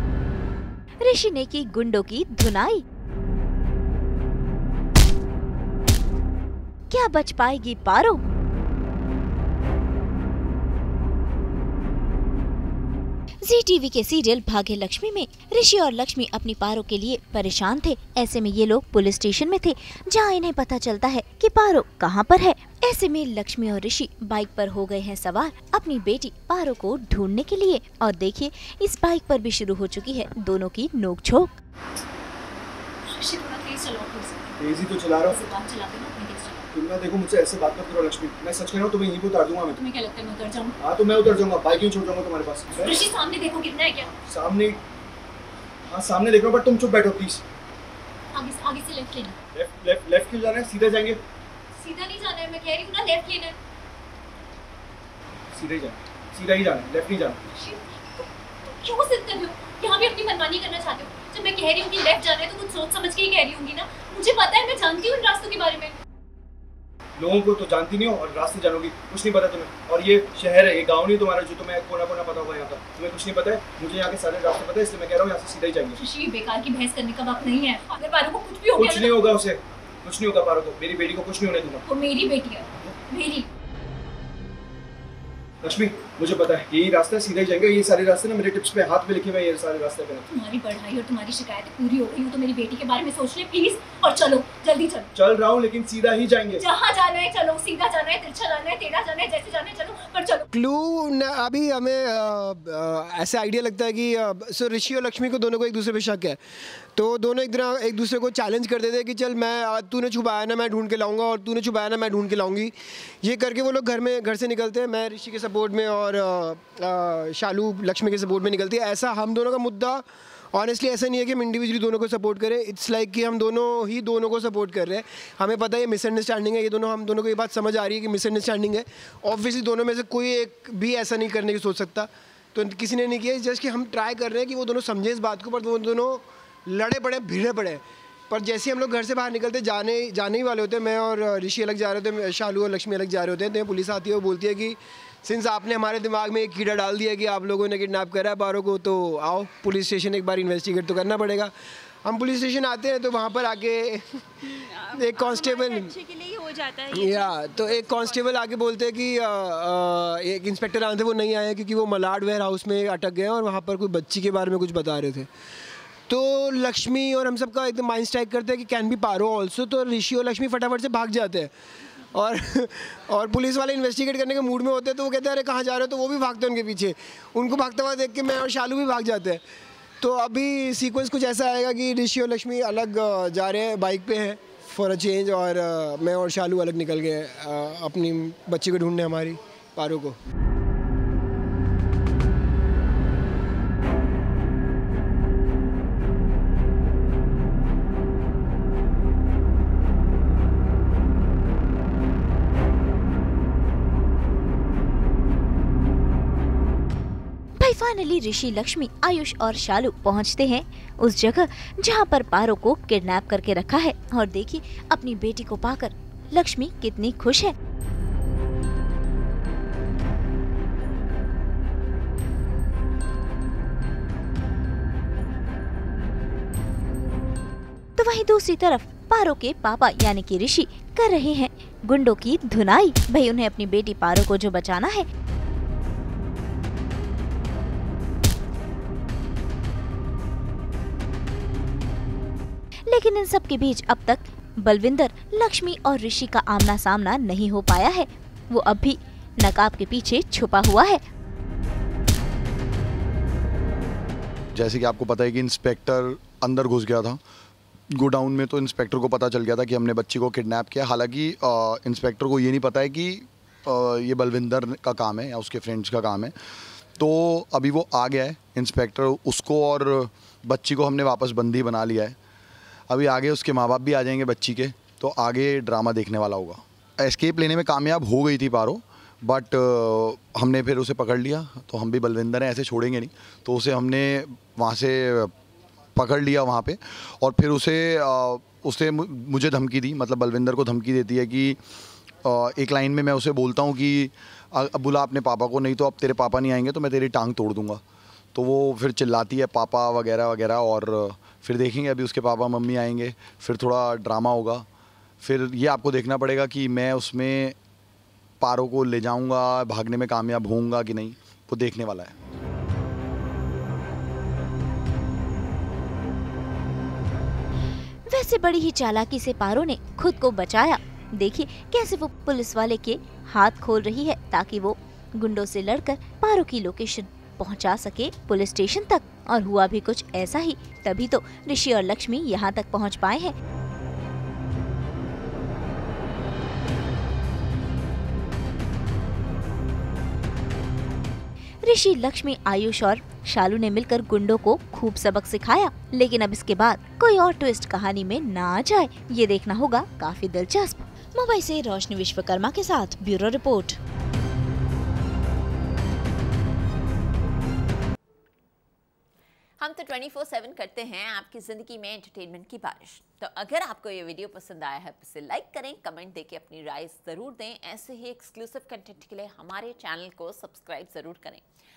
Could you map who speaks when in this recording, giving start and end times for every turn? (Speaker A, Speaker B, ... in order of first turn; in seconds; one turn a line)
Speaker A: 1.0-2.8
Speaker A: 6.9-8.2
Speaker A: 13.4-31.6
Speaker B: 33.1-34.5
Speaker C: 34.6-35.4
Speaker B: 35.3-36.7
Speaker C: 36.7-39.8
Speaker B: 39.7-40.8
Speaker C: 40.8-43.0
Speaker B: 42.8-44.1
Speaker C: 44.3-44.8
Speaker C: 45.9-47.4
Speaker B: 48.4-49.4
Speaker C: 49.5-51.2
Speaker B: 51.8-53.6
Speaker C: 55.5-57.4
Speaker B: 57.5-65.9
Speaker C: 67.2-76.0
Speaker B: 76.0-79.3
Speaker C: 78.8-81.8
Speaker B: 81.8-83.5
Speaker C: 85.6-90.3
Speaker B: 90.3-95.1
Speaker C: 95.2-96.6
Speaker B: 96.6-100.5
Speaker D: 100.5-106.4
Speaker D: 107.0-151.5
Speaker D: 152.0-156.0
Speaker E: 154.4-158.3
Speaker D: 156.9-165.3
Speaker D: 166.1-171.5
Speaker D: 172.1-179.4
Speaker D: 180.0-190.2
Speaker A: 207.6-217.6
Speaker A: 228.0-235.1
Speaker A: 242.9-251.0
Speaker F: 254.5-257.2
Speaker F: 257.9-266.4
Speaker F: 267.0-272.2
Speaker F: 272.9-285.3
Speaker F: 285.9-291.6
Speaker F: 292.2-297.8
Speaker F: 298.4-304.7
Speaker F: 305.2-307.6
Speaker F: 308.4-312.1
Speaker A: 318.1-333.3
Speaker A: 341.6-353.8
Speaker G: 359.6-371.4